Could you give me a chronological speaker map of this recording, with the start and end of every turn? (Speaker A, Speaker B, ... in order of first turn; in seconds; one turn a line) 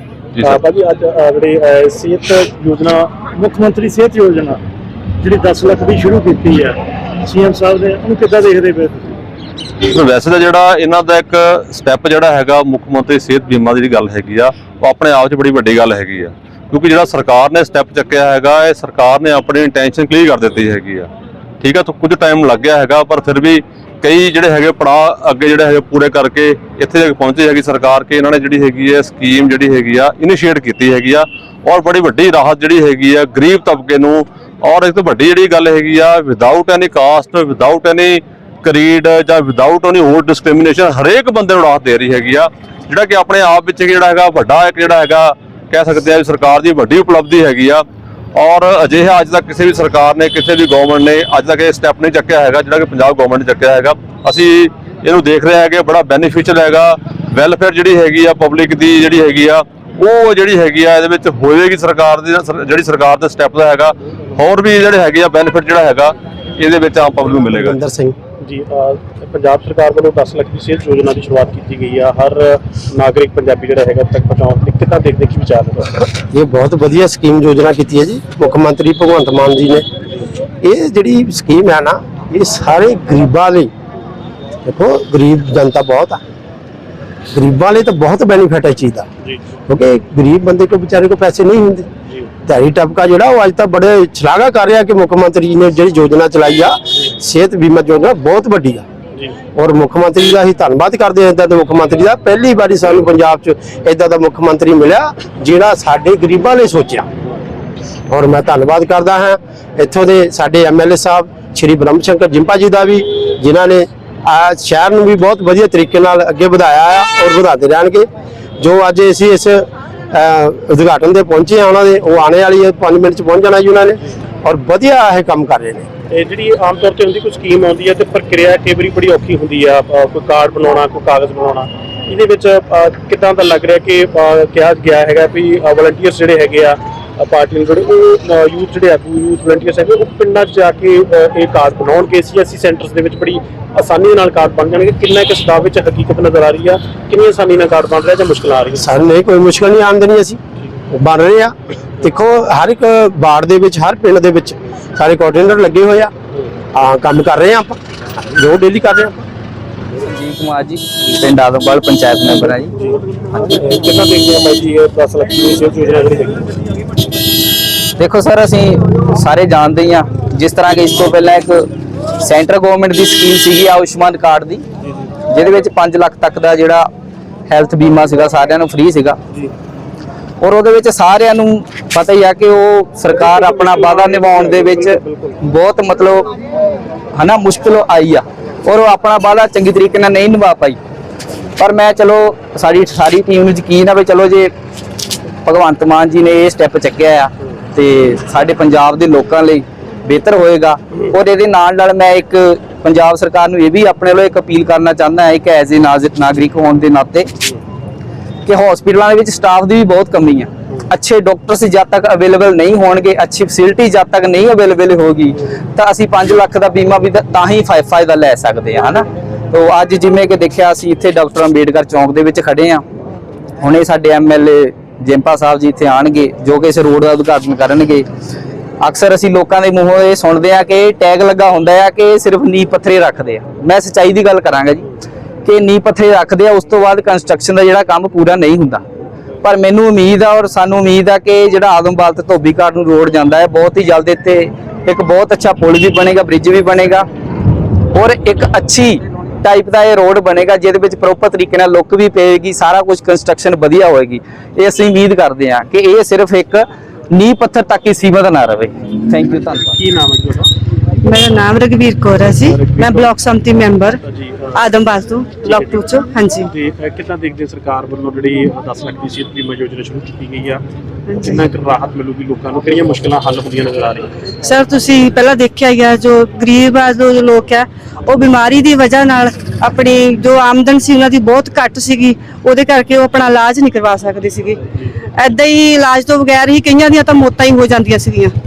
Speaker A: 0.4-4.5
Speaker A: 5.2-6.7
Speaker A: 7.3-9.1
Speaker B: 9.8-21.1
Speaker B: 21.6-47.8
Speaker B: 48.4-67.8
Speaker C: 67.5-68.1
Speaker A: 68.4-76.0
Speaker C: 76.3-79.8
Speaker C: 80.6-83.7
Speaker C: 84.6-86.2
Speaker C: 87.3-89.1
Speaker A: 89.2-89.5
Speaker C: 89.7-91.9
Speaker C: 92.5-98.8
Speaker C: 99.5-107.1
Speaker C: 108.1-118.0
Speaker C: 118.6-125.9
Speaker A: 126.1-148.9
Speaker C: 148.8-150.4
Speaker C: 150.9-156.1
Speaker C: 156.7-159.2
Speaker D: 160.0-162.7
Speaker A: 162.8-166.5
Speaker D: 168.0-171.7
Speaker D: 172.2-174.6
Speaker D: 175.3-176.8
Speaker D: 177.5-179.2
Speaker D: 180.4-186.3
Speaker A: 183.1-185.4
Speaker D: 187.1-190.8
Speaker D: 191.6-194.5
Speaker D: 195.4-207.3
Speaker D: 208.4-222.8
Speaker D: 223.6-228.0
Speaker D: 228.8-234.9
Speaker D: 235.4-238.8
Speaker D: 239.4-247.0
Speaker D: 247.9-259.7
Speaker A: 259.5-260.5
Speaker E: 261.0-264.0
Speaker A: 262.5-263.1
Speaker A: 264.0-264.6
Speaker E: 264.6-266.5
Speaker A: 265.4-265.8
Speaker A: 266.5-270.6
Speaker E: 271.1-271.4
Speaker A: 271.2-274.2
Speaker E: 274.4-284.6
Speaker E: 285.1-288.3